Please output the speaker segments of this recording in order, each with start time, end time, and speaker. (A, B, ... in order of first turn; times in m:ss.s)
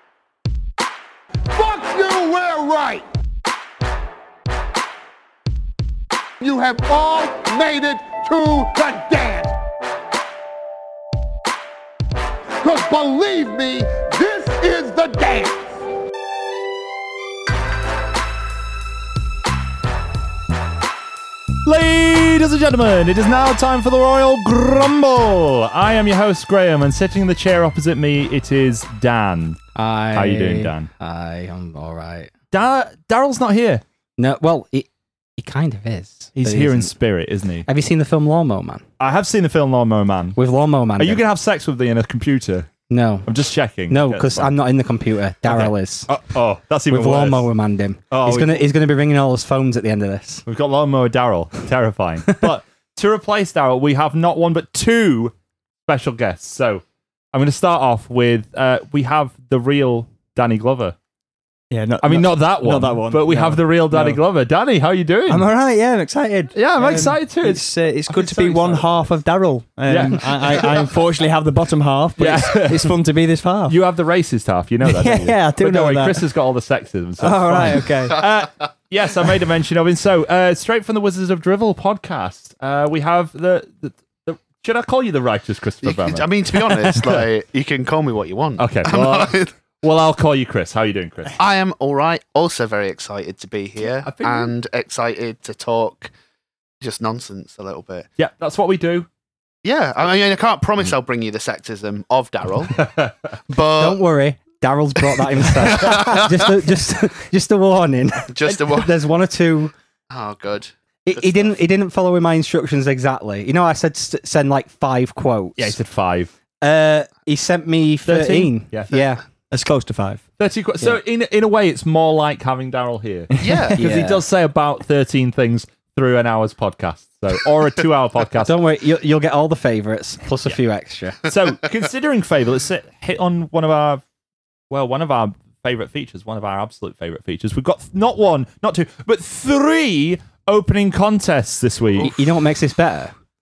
0:01.5-0:03.0 A
0:06.4-0:09.5 A
0:12.6-0:15.7 A
0:21.6-0:29.6 B
0:29.7-0:32.3 C
0:30.1-0:30.9 B
0:32.5-0:33.8 B
0:34.2-0:36.9 C
0:36.4-0:37.7 B
0:37.6-0:38.8 C
0:39.0-0:40.4 B
0:40.4-0:41.2 C
0:41.0-0:42.7 B
0:42.9-0:43.3 C
0:43.2-0:44.5 B
0:43.9-0:46.1 C
0:45.5-0:47.5 B
0:46.9-0:50.4 C
0:48.1-0:48.7 B
0:50.4-0:55.3 B
0:55.9-1:01.0 B
1:01.7-1:04.2 D
1:02.0-1:05.5 B
1:05.3-1:13.8 D
1:06.6-1:09.0 B
1:09.9-1:10.9 B
1:12.2-1:12.9 B
1:13.7-1:27.2 B
1:14.8-1:16.2 D
1:17.2-1:18.2 D
1:18.2-1:18.7 E
1:25.8-1:29.5 E
1:28.6-1:31.4 B
1:31.4-1:36.1 E
1:34.0-1:34.5 B
1:36.8-1:38.1 E
1:38.2-1:39.1 B
1:39.6-1:42.9 E
1:42.8-1:43.1 B
1:43.5-1:44.0 E
1:43.8-1:49.7 C
1:45.2-1:46.6 E
1:48.3-1:48.9 E
1:50.1-1:51.4 E
1:51.0-1:55.8 C
1:55.6-1:56.3 B
1:56.6-1:59.2 C
1:58.0-1:59.0 B
1:59.5-2:00.2 D
2:00.4-2:08.6 B
2:03.3-2:03.8 D
2:03.4-2:03.8 E
2:03.8-2:04.2 C
2:08.4-2:11.2 C
2:11.3-2:14.0 B
2:14.7-2:22.2 B
2:22.0-2:23.1 C